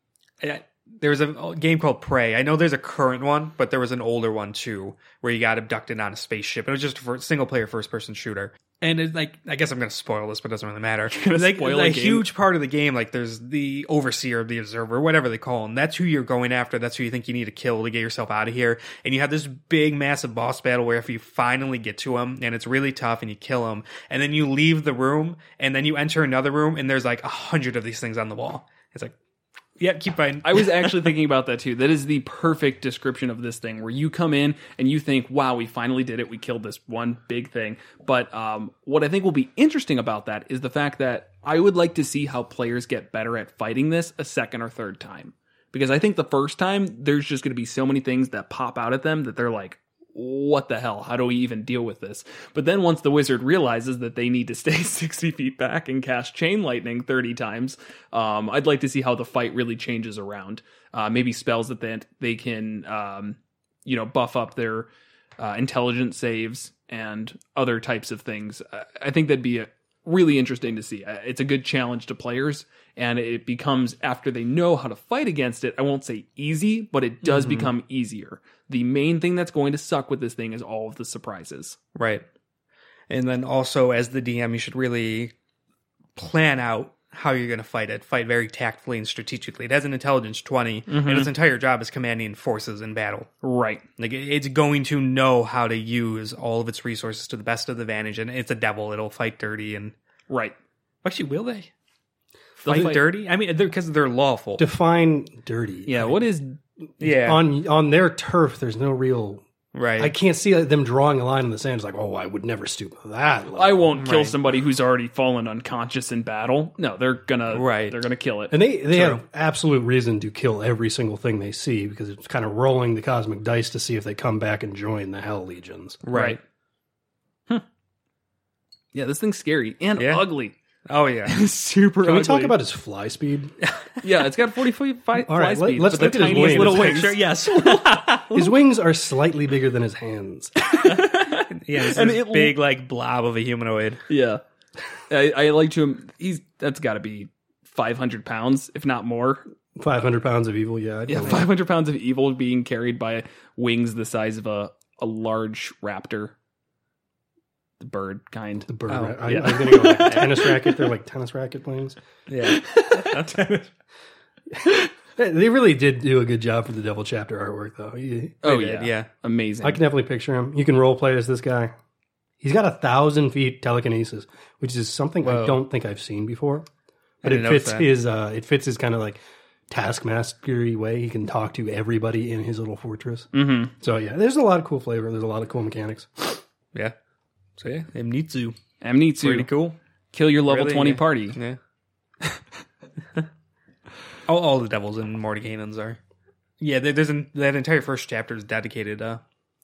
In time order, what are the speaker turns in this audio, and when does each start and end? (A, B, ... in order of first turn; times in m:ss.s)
0:00.4-0:29.1 A
0:11.1-0:12.3 B
0:29.8-0:30.9 A
0:30.4-1:21.8 B
1:17.2-1:17.7 A
1:22.0-1:22.2 A
1:23.1-1:25.3 A
1:26.2-1:33.3 A
1:30.9-1:31.3 B
1:33.4-1:33.8 B
1:34.0-1:40.0 A
1:40.3-1:40.6 B
1:41.0-1:41.7 A
1:42.6-1:43.0 B
1:42.7-1:44.7 A
1:44.6-1:46.2 C
1:45.9-1:46.6 B
1:47.0-1:47.4 A
1:47.0-1:49.4 C
1:49.7-1:50.1 A
1:50.0-1:54.0 C
1:53.6-1:58.6 B
1:54.0-1:54.4 A
1:57.5-1:58.0 A
1:58.5-2:06.0 C
1:59.0-1:59.2 A
2:06.0-2:06.4 A
2:06.1-2:06.4 B
2:08.9-2:10.6 B
2:10.0-2:10.3 A
2:10.9-2:11.4 A
2:11.3-2:12.6 B
2:12.0-2:13.5 C
2:14.0-2:17.2 B
2:15.2-2:20.5 C
2:15.9-2:18.5 A
2:20.6-2:22.6 B
2:21.5-2:24.0 A
2:24.1-2:24.4 B
2:25.1-2:29.4 B
2:29.8-2:31.5 C
2:31.1-2:36.4 B
2:37.8-2:38.7 B
2:38.7-2:42.0 C
2:38.9-2:40.4 A
2:39.2-2:40.6 B
2:42.3-2:43.5 A
2:42.5-2:43.6 B
2:44.5-2:48.4 C
2:48.4-2:49.8 B
2:48.4-2:49.1 A
2:49.6-2:51.7 C
2:52.4-2:56.7 C
2:55.2-2:55.6 A
2:57.2-2:57.9 A
2:57.2-3:03.3 C
3:03.3-3:03.7 B
3:03.8-3:06.4 C
3:07.6-3:08.6 A
3:08.8-3:09.5 B
3:09.2-3:09.8 A
3:10.1-3:11.4 B
3:10.5-3:11.6 A
3:14.3-3:16.0 A
3:16.6-3:19.2 A